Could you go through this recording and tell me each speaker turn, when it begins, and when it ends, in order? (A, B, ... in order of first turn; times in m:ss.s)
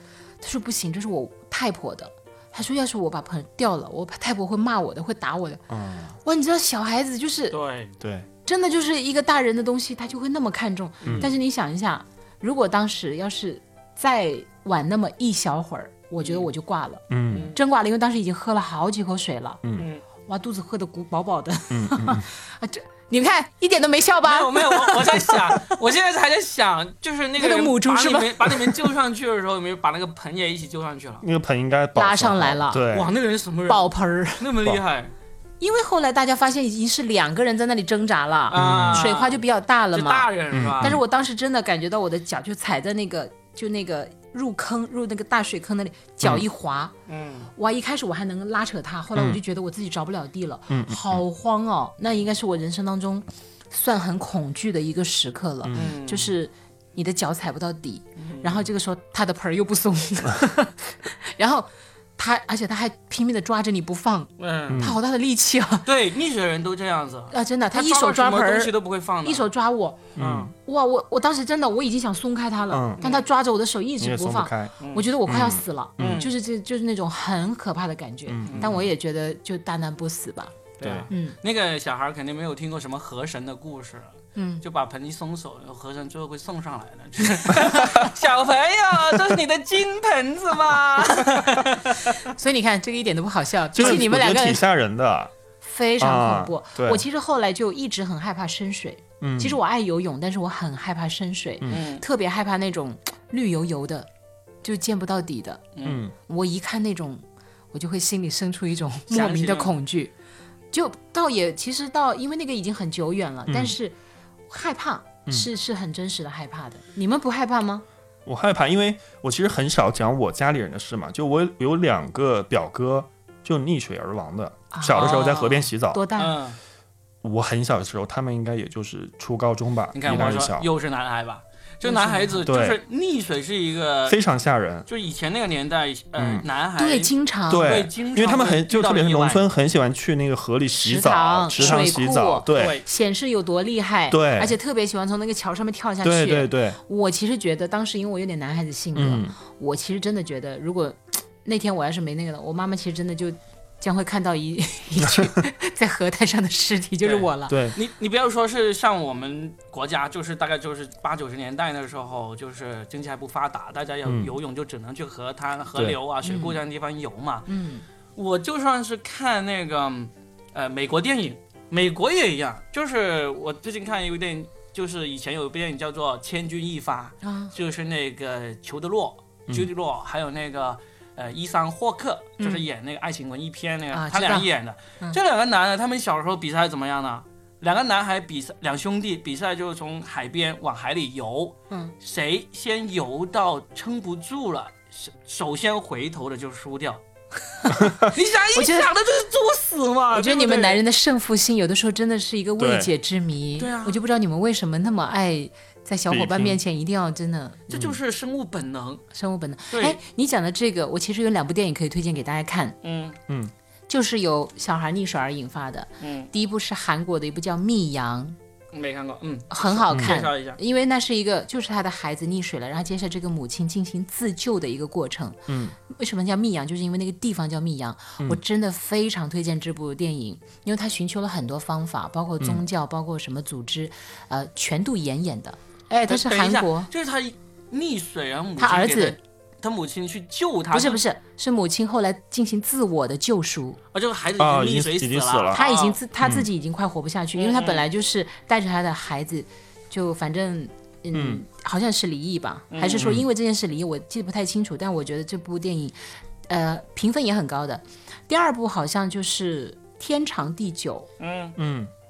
0:00.4-0:05.6 A
0:05.7-0:06.1 B
0:06.2-0:07.6 A
0:07.5-0:07.9 C
0:08.0-0:08.3 B
0:08.4-0:19.6 A
0:11.0-0:11.3 B
0:11.0-0:11.3 C
0:16.2-0:16.5 C
0:17.1-0:17.5 B
0:17.3-0:17.6 C
0:19.8-0:20.0 C
0:20.3-0:25.7 A
0:21.7-0:22.2 B
0:24.2-0:31.2 C
0:27.4-0:28.9 A
0:31.2-0:33.1 B
0:32.0-0:32.8 A
0:32.9-0:35.1 C
0:33.7-0:34.5 A
0:35.6-0:40.3 A
0:38.5-0:39.4 C
0:38.6-0:39.1 B
0:39.9-0:41.0 C
0:40.5-0:41.0 B
0:40.8-0:46.9 A
0:47.1-0:47.5 C
0:47.5-1:05.9 A
0:50.7-0:51.2 B
0:55.6-0:55.9 B
0:55.7-0:56.3 C
0:58.2-0:58.6 C
1:04.4-1:04.8 C
1:04.7-1:05.0 B
1:05.8-1:09.4 C
1:07.3-1:10.1 A
1:10.2-1:10.5 B
1:10.2-1:10.5 C
1:10.6-1:20.6 A
1:12.7-1:13.0 B
1:13.0-1:13.2 C
1:14.0-1:14.7 B
1:14.8-1:15.1 C
1:15.2-1:16.3 B
1:16.0-1:16.3 C
1:18.3-1:18.9 B
1:20.8-1:24.1 C
1:20.8-1:21.1 B
1:21.1-1:21.4 A
1:24.3-1:24.6 A
1:24.6-1:32.2 C
1:32.2-1:34.6 A
1:33.7-1:35.3 B
1:35.6-1:44.1 A
1:36.0-1:37.0 B
1:39.2-1:39.6 B
1:41.7-1:42.0 C
1:44.6-1:45.6 A
1:45.7-1:46.0 C
1:45.8-1:46.1 B
1:46.2-1:50.1 A
1:49.1-1:49.7 C
1:50.7-1:53.9 A
1:53.5-1:53.7 B
1:54.5-1:57.8 A
1:58.2-2:06.0 B
2:04.7-2:05.4 A
2:04.9-2:06.6 C
2:05.9-2:06.4 A
2:07.2-2:10.7 B
2:09.9-2:14.2 C
2:11.8-2:12.5 A
2:12.4-2:12.8 B
2:14.1-2:14.8 B
2:14.9-2:19.4 C
2:16.2-2:16.4 B
2:16.8-2:17.7 A
2:17.5-2:22.8 B
2:20.8-2:37.6 A
2:22.5-2:22.8 C
2:24.1-2:24.5 B
2:26.0-2:26.8 B
2:28.9-2:29.3 B
2:37.0-2:47.5 C
2:37.5-2:37.8 B
2:44.0-2:44.3 B
2:46.2-2:46.6 A
2:47.5-2:47.8 A
2:48.2-3:17.0 C
2:57.2-2:57.5 A
3:02.4-3:02.6 A
3:03.9-3:04.5 A
3:17.7-3:18.1 B
3:18.0-3:20.8 C
3:18.5-3:18.9 A
3:20.1-3:27.6 A
3:22.6-3:22.9 B
3:23.6-3:24.0 C
3:26.1-3:26.6 B
3:27.7-3:28.0 B
3:27.7-3:29.0 C
3:29.1-3:32.8 A
3:29.7-3:30.0 C
3:32.8-3:33.2 C
3:33.9-3:38.4 A
3:36.0-3:36.3 C
3:38.7-3:40.6 C
3:39.5-3:56.9 A
3:45.5-3:45.7 B
3:56.1-4:01.0 C
3:58.6-3:59.2 A
4:00.7-4:03.8 A
4:03.9-4:06.0 C
4:04.4-4:05.6 B
4:05.5-4:15.9 A
4:06.2-4:06.5 B
4:07.4-4:07.8 C
4:11.1-4:11.4 B
4:12.7-4:13.1 C
4:13.0-4:13.2 B
4:16.5-4:21.1 A
4:21.2-4:21.6 C
4:21.6-4:21.9 B